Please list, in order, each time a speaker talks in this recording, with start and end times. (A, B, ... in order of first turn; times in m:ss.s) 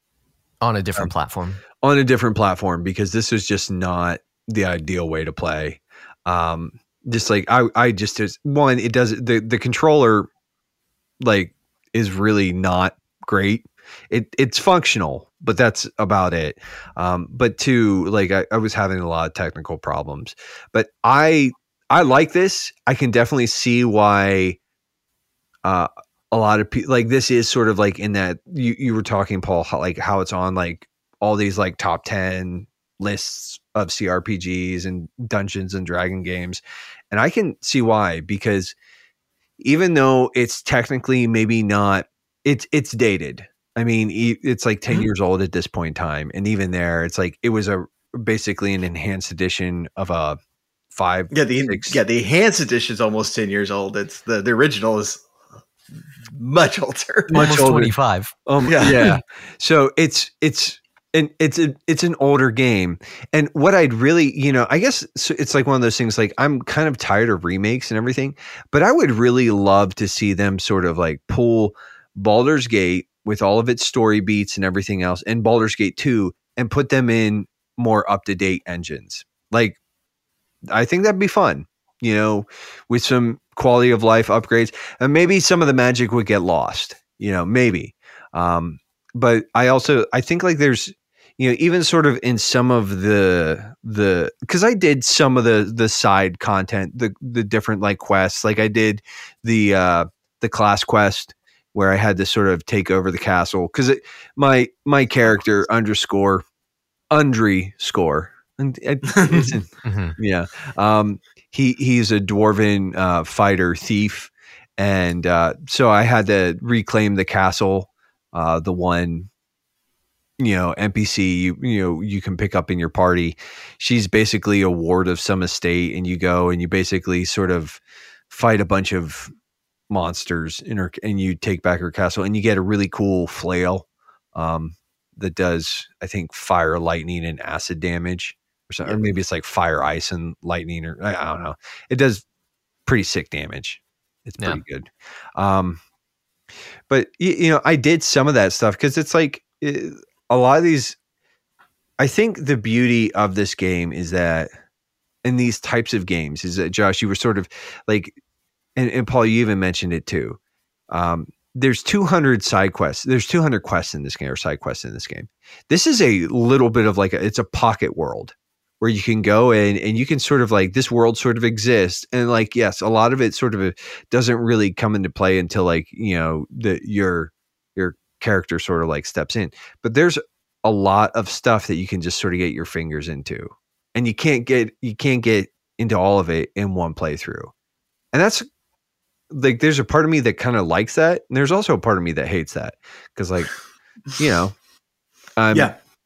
0:00.6-0:01.6 A
0:01.8-0:10.3 B
0:11.2-0:24.6 B
0:25.6-0:38.7 B
0:39.6-0:50.4 B
0:50.9-0:52.0 B
0:51.3-0:55.2 C
0:56.3-0:57.5 C
0:57.3-0:57.9 B
0:57.3-0:58.3 A
0:58.4-1:19.8 B
0:58.6-0:59.2 C
1:20.7-1:46.4 B
1:47.1-1:59.3 B
1:49.1-1:49.5 C
1:49.8-1:50.2 A
2:00.4-2:09.3 B
2:09.9-2:22.2 B
2:22.8-2:25.8 B
2:26.9-2:31.0 B
2:32.0-2:34.5 B
2:35.2-2:38.2 B
2:38.8-2:40.4 B
2:40.9-3:07.5 B
3:08.1-3:08.4 B
3:09.3-3:13.5 B
3:14.2-3:14.5 B
3:15.4-3:15.7 B